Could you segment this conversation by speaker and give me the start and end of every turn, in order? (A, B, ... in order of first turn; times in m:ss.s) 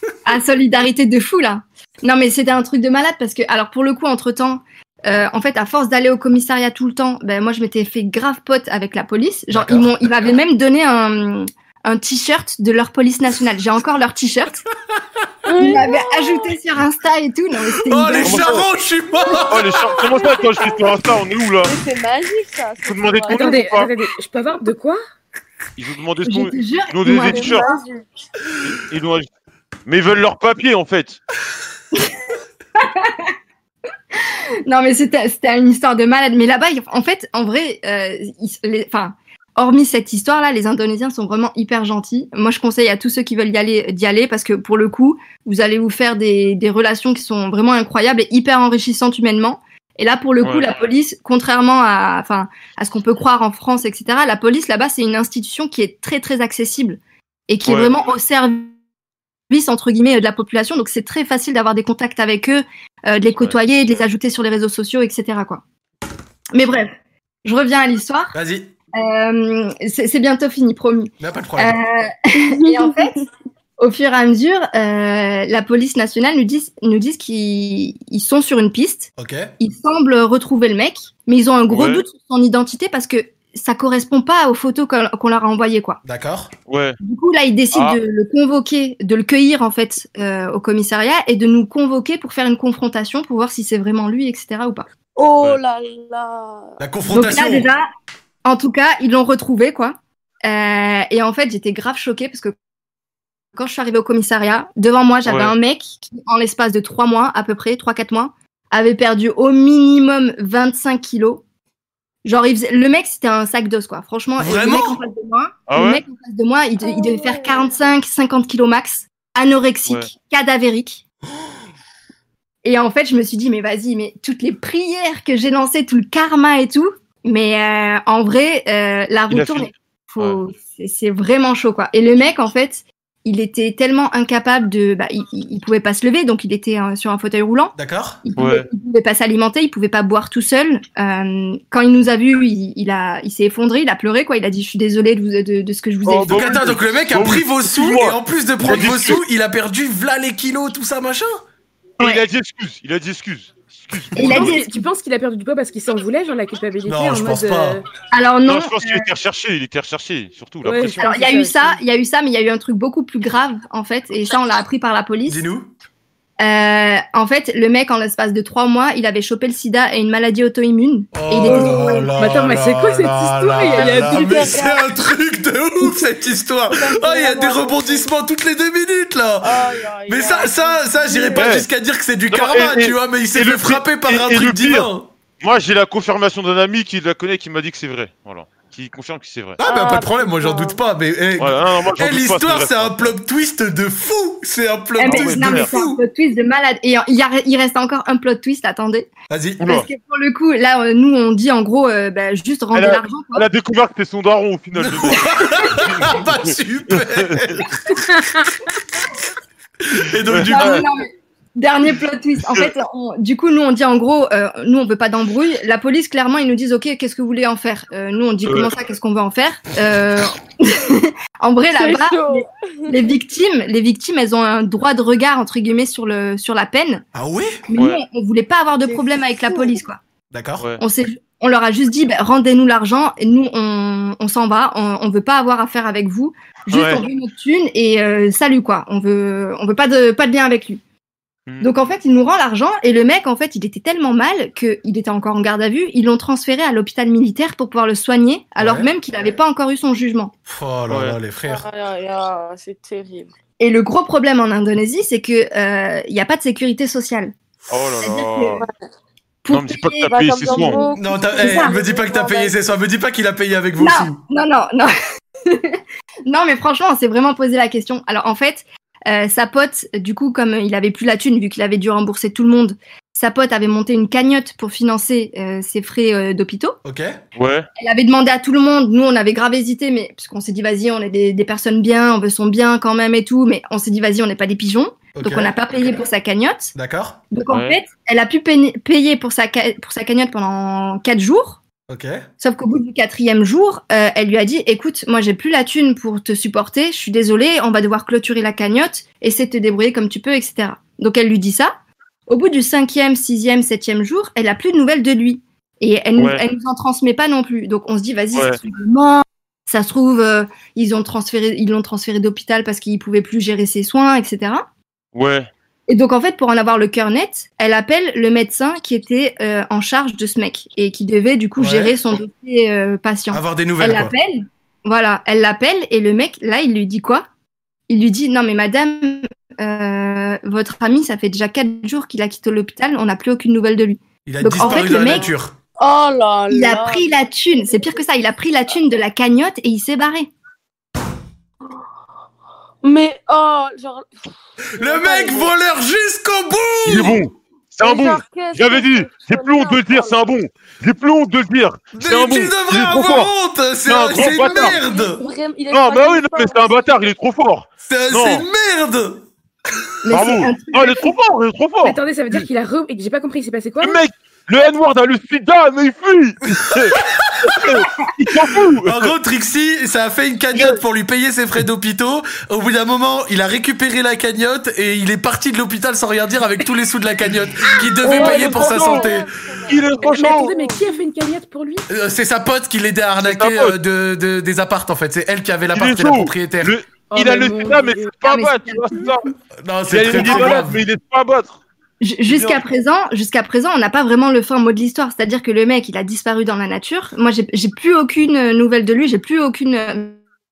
0:00.3-0:14.6 A
0:09.5-0:10.1 B
0:15.5-0:16.5 C
0:15.6-0:18.7 A
0:17.8-0:19.6 B
0:18.2-0:18.7 D
0:19.3-0:23.8 C
0:19.4-0:21.7 D
0:22.8-0:23.9 D
0:23.3-0:25.0 E
0:25.8-0:27.7 D
0:26.2-0:27.8 A
0:27.1-0:28.0 C
0:28.6-0:29.3 D
0:29.9-0:31.2 D
0:31.9-0:32.2 A
0:32.8-0:33.3 A
0:34.7-0:58.8 A
0:50.4-0:50.7 D
0:57.6-0:58.0 D
0:59.5-1:05.6 A
1:06.5-1:08.3 A
1:08.3-1:08.7 B
1:09.0-1:13.3 A
1:11.2-1:11.8 B
1:12.4-1:13.1 C
1:13.8-1:26.0 A
1:19.2-1:19.5 B
1:21.7-1:22.0 D
1:26.0-1:26.5 B
1:26.7-1:27.0 D
1:27.0-1:34.9 A
1:27.7-1:28.0 D
1:35.2-1:36.8 C
1:36.8-1:37.7 B
1:37.1-1:37.9 A
1:38.4-1:42.6 A
1:43.6-1:51.4 A
1:45.3-1:45.5 D
1:52.2-2:01.0 A
1:54.4-1:55.0 B
1:55.7-1:56.0 D
1:56.8-1:57.9 C
2:02.6-2:26.5 A
2:09.3-2:10.4 D
2:17.8-2:18.2 B
2:18.4-2:18.7 D
2:26.1-2:29.2 D
2:26.2-2:31.4 B
2:32.0-2:34.6 D
2:34.2-2:34.9 A
2:34.2-2:34.5 B
2:34.3-2:37.8 E
2:36.9-2:37.8 B
2:38.1-2:39.1 A
2:38.5-2:41.0 D
2:40.6-2:41.8 E
2:41.0-2:45.4 A
2:45.3-2:45.7 B
2:46.4-2:52.4 A
2:51.1-3:05.1 B
2:51.4-2:54.5 E
2:53.7-2:54.9 C
2:56.7-2:58.1 C
2:59.4-3:01.5 C
3:01.4-3:01.7 D
3:02.3-3:04.9 D
3:05.4-3:09.6 D
3:09.6-3:16.0 B
3:09.6-3:10.8 C
3:11.4-3:13.2 D
3:15.0-3:19.1 A
3:15.0-3:15.7 D
3:19.3-3:19.7 B
3:19.6-3:19.9 D
3:19.6-3:23.5 A
3:22.7-3:25.2 D
3:24.8-3:27.7 B
3:25.2-3:25.8 A
3:25.8-3:27.7 D
3:29.9-3:30.8 B
3:30.3-3:30.8 D
3:30.5-3:47.0 A
3:38.4-3:38.7 D
3:41.7-3:43.1 C
3:47.2-3:47.6 B
3:47.7-3:50.0 A
3:47.8-3:48.0 D
3:48.8-3:49.7 C
3:50.3-3:50.7 B
3:50.8-4:00.8 A
3:56.7-3:57.0 D
4:01.6-4:10.3 A
4:08.6-4:08.9 B
4:10.5-4:11.6 B
4:10.9-4:11.2 D
4:11.5-4:13.3 C
4:13.6-4:17.3 A
4:17.7-4:18.6 D
4:18.0-4:18.6 A
4:19.4-4:21.8 A
4:19.5-4:20.8 D
4:20.1-4:22.5 C
4:21.0-4:24.2 B
4:23.8-4:24.9 A
4:25.5-4:36.8 A
4:36.8-4:37.2 B
4:37.4-4:37.7 D
4:37.8-4:46.7 A
4:45.2-4:45.5 B
4:46.8-4:47.2 B
4:47.3-4:51.6 A
4:47.5-4:47.8 D
4:51.9-4:52.3 B
4:52.4-5:01.7 A
5:02.3-5:14.7 A
5:06.2-5:06.4 D
5:08.3-5:08.6 D
5:15.1-5:15.5 D
5:15.9-5:27.3 A
5:21.6-5:22.0 B
5:23.3-5:24.1 B
5:27.9-5:35.3 A
5:34.2-5:35.5 B
5:34.6-5:35.0 C
5:35.8-5:38.0 C
5:36.5-5:40.3 A
5:42.8-5:44.1 C
5:44.8-5:47.2 B
5:44.8-5:45.5 C
5:46.9-5:53.3 D
5:47.8-5:50.2 C
5:52.0-5:55.2 B
5:53.8-5:54.8 D
5:54.4-5:57.0 C
5:55.7-5:58.5 D
5:57.8-5:59.2 B
6:00.1-6:01.1 A
6:00.1-6:02.4 D
6:01.8-6:04.0 E
6:03.8-6:09.1 D
6:08.9-6:19.3 B
6:10.5-6:10.8 D
6:18.0-6:20.8 C
6:18.1-6:19.1 E
6:19.7-6:20.5 D
6:20.1-6:21.9 E
6:21.9-6:26.7 B
6:23.2-6:23.8 D
6:25.7-6:29.3 D
6:27.1-6:28.2 E
6:28.2-6:29.1 A
6:29.6-6:30.8 B
6:29.9-6:31.6 D
6:32.0-6:40.2 A
6:32.3-6:32.6 D